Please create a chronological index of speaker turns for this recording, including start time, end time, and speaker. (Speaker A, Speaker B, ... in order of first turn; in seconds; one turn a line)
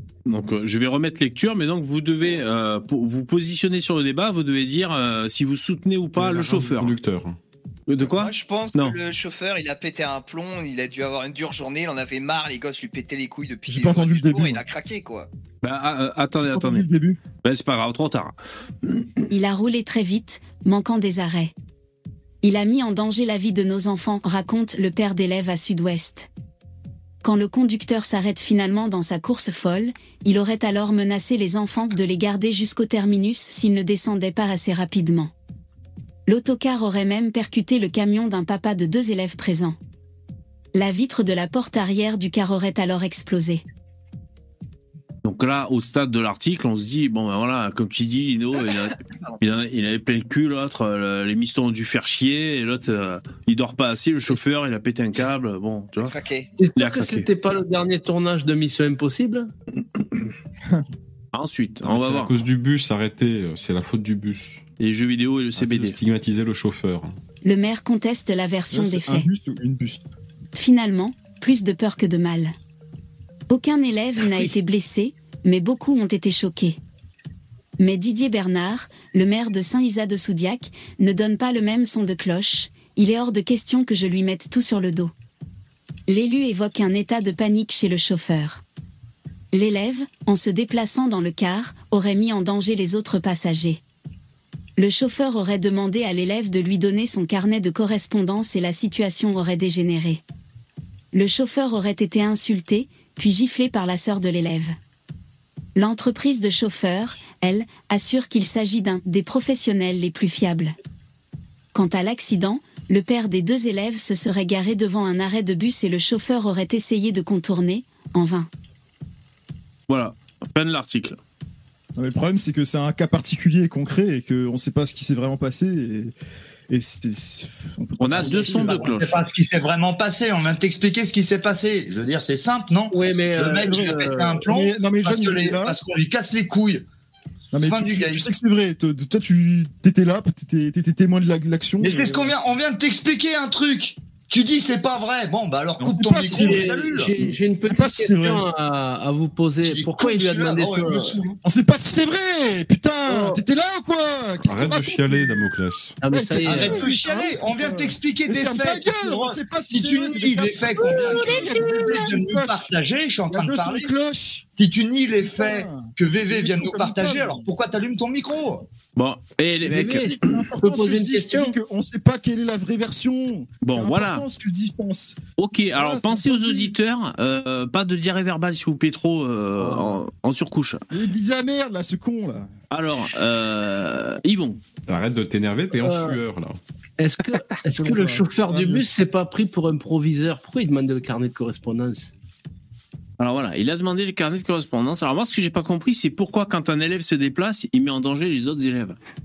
Speaker A: 0.3-6.9
Speaker B: 6.2-7.4
Speaker A: 7.9-9.0
Speaker C: 8.0-15.3
Speaker D: 13.7-14.6
Speaker A: 15.6-16.9
Speaker D: 16.4-17.2
Speaker A: 17.4-19.1
Speaker E: 19.3-21.5
Speaker E: 22.4-26.3
Speaker E: 27.2-35.3
Speaker E: 36.3-39.8
Speaker E: 40.8-43.6
Speaker A: 45.2-56.1
Speaker C: 56.0-56.5
Speaker F: 56.6-59.5
Speaker A: 56.8-57.3
Speaker A: 60.0-60.3
Speaker A: 61.3-62.4
Speaker B: 61.8-64.6
Speaker A: 64.8-66.0
Speaker B: 65.6-67.2
Speaker E: 67.4-69.3
Speaker D: 68.7-70.0
Speaker E: 70.5-72.5
Speaker E: 73.5-76.8
Speaker E: 77.8-85.1
Speaker E: 86.1-88.6
Speaker E: 89.5-93.8
Speaker E: 94.8-100.2
Speaker E: 101.1-104.8
Speaker E: 105.8-110.8
Speaker E: 111.7-118.5
Speaker A: 119.9-121.2
Speaker D: 122.0-126.1
Speaker D: 126.7-128.9
Speaker A: 128.0-129.2
Speaker G: 128.1-136.8
Speaker F: 132.9-134.4
Speaker D: 134.5-135.8
Speaker D: 137.5-142.3
Speaker G: 137.6-138.3
Speaker G: 141.8-147.1
Speaker D: 145.8-148.4
Speaker F: 146.3-151.2
Speaker G: 149.6-151.4
Speaker D: 151.4-155.4
Speaker F: 153.1-153.4
Speaker B: 154.4-156.0
Speaker F: 156.0-156.9
Speaker D: 156.1-162.7
Speaker G: 156.4-163.9
Speaker F: 160.8-161.8
Speaker D: 163.3-164.5
Speaker G: 164.6-168.7
Speaker D: 165.2-167.5
Speaker A: 169.0-170.4
Speaker D: 169.7-175.2
Speaker F: 169.7-171.6
Speaker A: 173.6-174.2
Speaker A: 175.4-180.8
Speaker D: 175.7-176.7
Speaker D: 180.9-182.5
Speaker A: 182.7-184.6
Speaker B: 184.9-186.6
Speaker F: 185.8-186.2
Speaker F: 187.0-192.1
Speaker D: 187.7-188.9
Speaker A: 193.2-199.0